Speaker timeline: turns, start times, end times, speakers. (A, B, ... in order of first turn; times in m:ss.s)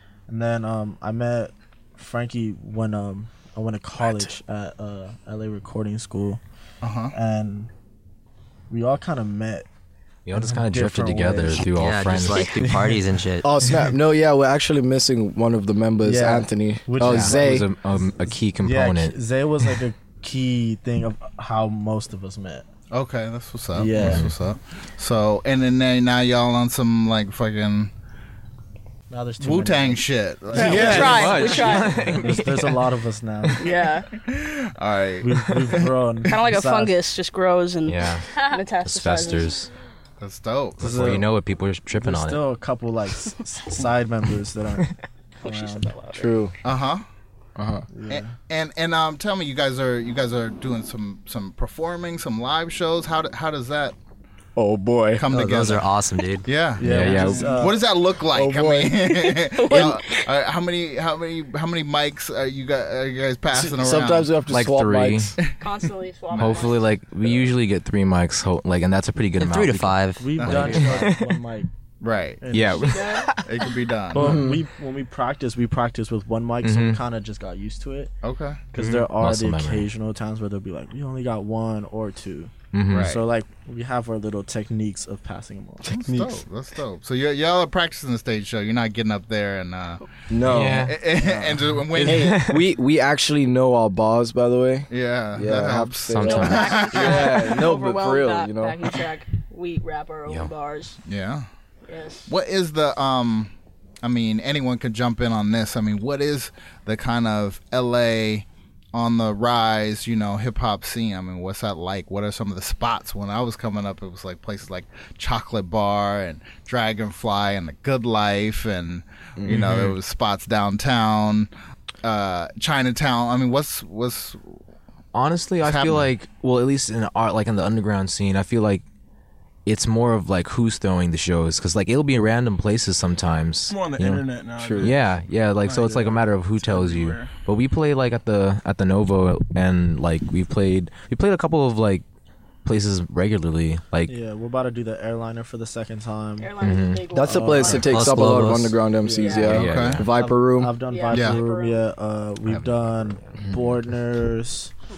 0:00.3-0:06.4 A
0:06.8-0:07.1 B
0:07.1-0:07.7 A
0:08.7-0:09.7 A
0:10.3-0:12.7 C
0:10.4-0:11.7 A
0:11.8-0:13.5 D
0:12.6-0:13.0 A
0:13.4-0:17.7 E
0:16.0-0:17.7 A
0:17.0-0:19.2 C
0:18.6-0:22.7 A
0:22.9-0:27.9 B
0:23.8-0:24.2 A
0:24.0-0:24.3 C
0:29.1-0:33.6 A
0:29.4-0:31.6 B
0:30.5-0:32.1 F
0:30.6-0:32.8 C
0:33.6-0:34.1 F
0:34.3-0:35.8 B
0:35.2-0:36.9 A
0:36.3-0:39.6 F
0:37.9-0:38.3 C
0:38.8-0:39.7 C
0:40.2-0:41.2 B
0:40.8-0:42.4 C
0:40.8-0:41.3 A
0:42.0-0:44.9 A
0:45.4-0:46.3 F
0:45.4-0:46.2 A
0:46.1-0:46.6 E
0:46.6-0:47.0 B
0:47.6-0:47.9 E
0:47.9-0:48.3 A
0:48.1-0:54.0 B
0:54.6-0:55.3 E
0:55.2-1:04.3 B
0:55.3-0:56.5 D
0:56.8-0:57.8 A
0:56.8-0:57.5 C
0:58.3-0:58.9 E
0:59.0-1:00.3 F
1:03.5-1:05.4 E
1:04.5-1:05.3 C
1:05.6-1:07.0 F
1:06.4-1:11.3 C
1:06.4-1:06.6 B
1:09.4-1:10.8 D
1:10.2-1:11.7 A
1:10.4-1:10.9 B
1:12.0-1:12.4 B
1:12.4-1:13.3 A
1:12.5-1:13.3 C
1:12.9-1:13.4 F
1:13.4-1:14.4 B
1:14.1-1:18.1 A
1:14.2-1:14.6 E
1:16.6-1:17.0 C
1:18.2-1:18.6 B
1:18.7-1:26.0 A
1:18.8-1:19.9 C
1:22.7-1:23.2 C
1:22.9-1:23.2 B
1:25.9-1:32.4 B
1:30.3-1:38.8 E
1:30.5-1:31.0 C
1:31.9-1:32.6 C
1:34.9-1:37.5 B
1:36.1-1:36.8 C
1:36.2-1:41.0 F
1:40.3-1:40.5 C
1:41.1-1:41.5 B
1:41.9-1:42.3 F
1:42.3-2:01.5 B
1:59.4-1:59.9 E
2:02.0-2:04.6 B
2:05.1-2:08.8 C
2:05.6-2:06.1 B
2:09.7-2:14.2 C
2:13.7-2:17.3 G
2:14.6-2:14.9 E
2:14.8-2:22.0 C
2:22.6-2:24.1 C
2:24.1-2:26.6 A
2:26.4-2:28.0 F
2:26.6-2:27.0 C
2:27.1-2:30.8 E
2:27.2-2:28.4 A
2:27.9-2:28.8 D
2:29.0-2:34.7 A
2:29.2-2:29.6 F
2:29.4-2:30.1 C
2:29.5-2:30.0 B
2:30.9-2:31.8 F
2:31.1-2:31.4 B
2:32.5-2:33.8 C